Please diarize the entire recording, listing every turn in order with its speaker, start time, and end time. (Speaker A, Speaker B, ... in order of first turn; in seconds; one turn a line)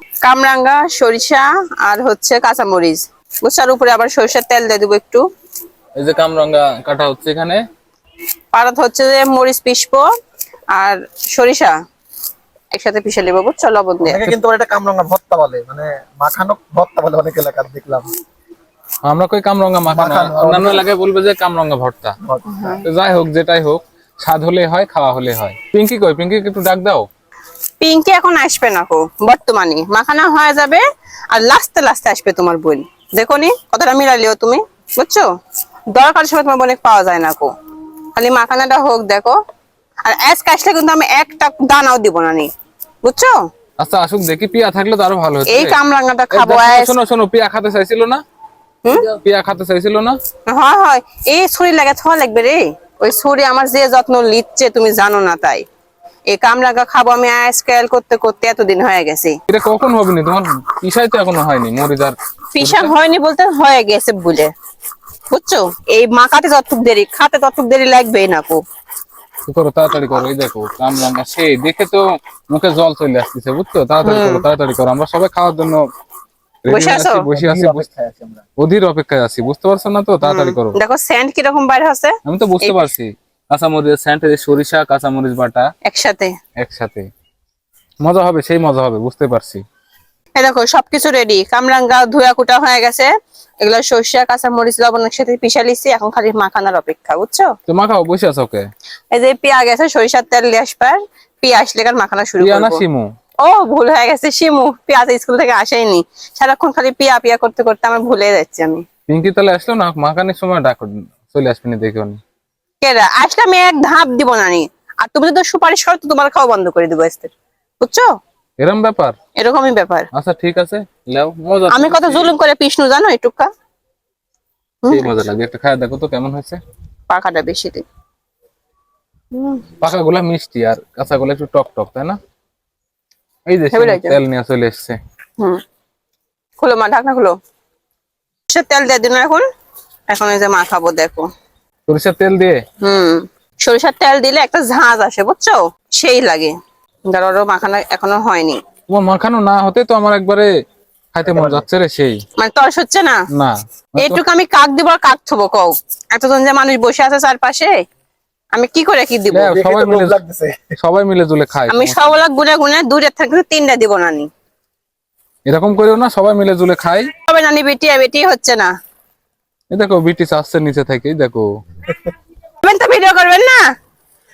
Speaker A: 0.2-5.2
Speaker B: 6.0-7.6
Speaker A: 8.5-10.1
Speaker A: 10.8-11.7
Speaker A: 12.7-14.3
Speaker C: 14.1-18.1
Speaker B: 19.1-22.2
Speaker C: 19.9-20.9
Speaker C: 22.2-22.6
Speaker A: 22.5-22.8
Speaker B: 22.8-27.1
Speaker A: 27.8-35.2
Speaker A: 35.9-37.5
Speaker A: 38.2-39.4
Speaker A: 40.0-42.5
Speaker A: 43.0-43.4
Speaker B: 43.8-45.8
Speaker A: 45.5-47.0
Speaker B: 46.3-48.2
Speaker B: 49.1-50.2
Speaker A: 50.5-55.6
Speaker A: 56.3-59.3
Speaker B: 59.5-62.9
Speaker A: 62.6-64.5
Speaker A: 65.3-68.6
Speaker B: 69.5-75.8
Speaker A: 74.0-74.4
Speaker B: 76.7-77.9
Speaker A: 76.7-77.3
Speaker C: 77.3-78.4
Speaker B: 78.6-80.8
Speaker A: 80.2-82.8
Speaker B: 82.2-85.7
Speaker A: 85.9-86.3
Speaker B: 86.6-87.1
Speaker B: 88.0-89.6
Speaker A: 90.4-93.1
Speaker A: 93.6-97.5
Speaker B: 97.7-98.7
Speaker A: 99.1-102.8
Speaker B: 102.4-103.1
Speaker A: 103.4-108.8
Speaker B: 109.1-112.2
Speaker A: 112.8-118.1
Speaker B: 118.6-119.2
Speaker A: 119.4-120.1
Speaker B: 120.1-122.3
Speaker A: 121.7-123.5
Speaker A: 124.8-125.1
Speaker B: 124.9-126.6
Speaker A: 127.1-127.8
Speaker A: 129.3-129.7
Speaker B: 129.8-132.2
Speaker B: 133.5-135.0
Speaker A: 133.7-134.2
Speaker A: 136.6-137.3
Speaker A: 138.5-139.4
Speaker A: 140.1-141.3
Speaker B: 141.9-142.6
Speaker A: 142.8-146.5
Speaker A: 147.1-148.6
Speaker B: 148.9-150.5
Speaker B: 151.1-152.2
Speaker C: 151.3-151.7
Speaker A: 152.4-153.2
Speaker B: 153.3-154.2
Speaker A: 154.0-157.8
Speaker A: 158.5-159.5
Speaker B: 159.3-160.2
Speaker C: 159.5-160.6
Speaker B: 160.8-162.1
Speaker A: 161.7-164.3
Speaker B: 165.5-167.1
Speaker A: 167.3-168.7
Speaker B: 169.7-171.5
Speaker A: 172.6-173.6